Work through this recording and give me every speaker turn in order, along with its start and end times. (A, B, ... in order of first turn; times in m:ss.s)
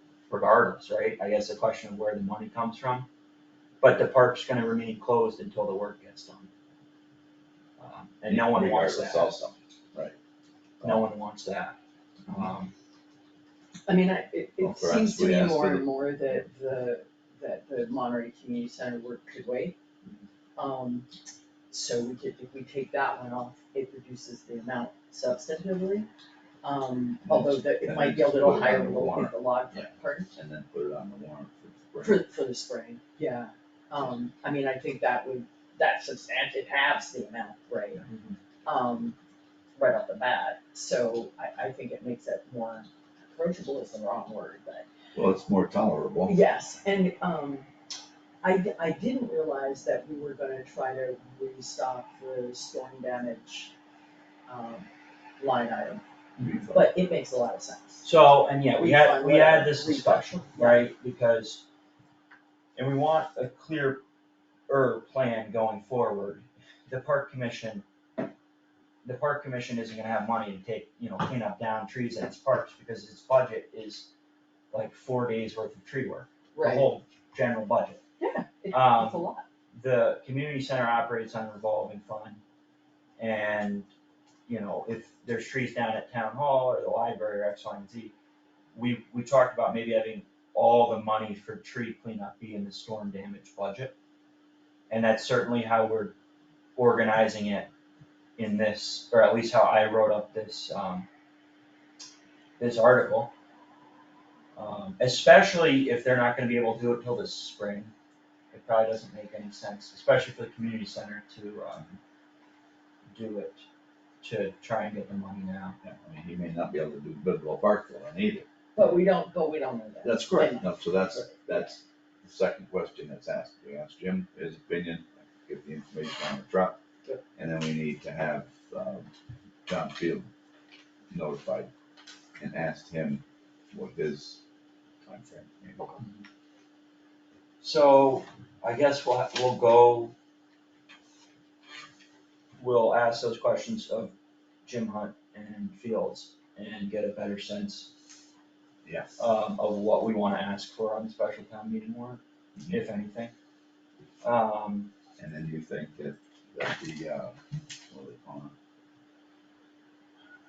0:00.3-0:03.1 A
0:03.8-0:06.5 A
0:07.8-0:09.4 A
0:08.3-0:10.2 B
0:10.8-0:11.8 A
0:12.3-0:12.7 A
0:13.9-0:19.8 C
0:14.6-0:15.9 B
0:20.6-0:21.1 C
0:21.7-0:26.1 C
0:26.6-0:30.3 C
0:27.2-0:32.2 B
0:32.0-0:38.0 C
0:38.0-0:38.4 A
0:38.7-0:39.2 C
0:39.8-0:44.8 C
0:45.2-0:46.4 B
0:46.3-0:47.7 C
0:48.4-0:53.7 C
0:54.5-0:54.9 C
0:55.4-0:56.0 C
0:56.4-0:56.8 B
0:56.7-0:58.1 C
0:58.0-1:01.6 A
0:58.8-1:00.8 C
1:02.8-1:04.0 A
1:04.7-1:07.8 A
1:09.0-1:14.1 A
1:14.7-1:18.0 A
1:16.5-1:16.9 C
1:18.2-1:19.4 C
1:18.7-1:22.4 A
1:23.2-1:23.9 A
1:24.5-1:28.2 A
1:28.7-1:33.9 A
1:34.9-1:36.2 A
1:36.8-1:37.7 A
1:38.4-1:41.1 A
1:42.6-1:43.3 A
1:44.6-1:47.9 A
1:48.5-1:52.0 A
1:53.1-1:53.7 A
1:54.2-1:55.8 A
1:55.8-1:58.5 B
1:58.8-2:01.4 C
2:00.0-2:06.8 B
2:07.4-2:09.1 B
2:09.7-2:10.3 B
2:11.1-2:11.7 B
2:12.4-2:14.4 B
2:15.1-2:15.5 A
2:15.8-2:16.0 C
2:17.6-2:20.1 A
2:22.6-2:24.1 A
2:24.6-2:27.9 A
2:28.8-2:29.2 B
2:29.2-2:33.3 A
2:34.2-2:34.9 A
2:35.2-2:37.4 B
2:37.9-2:38.5 B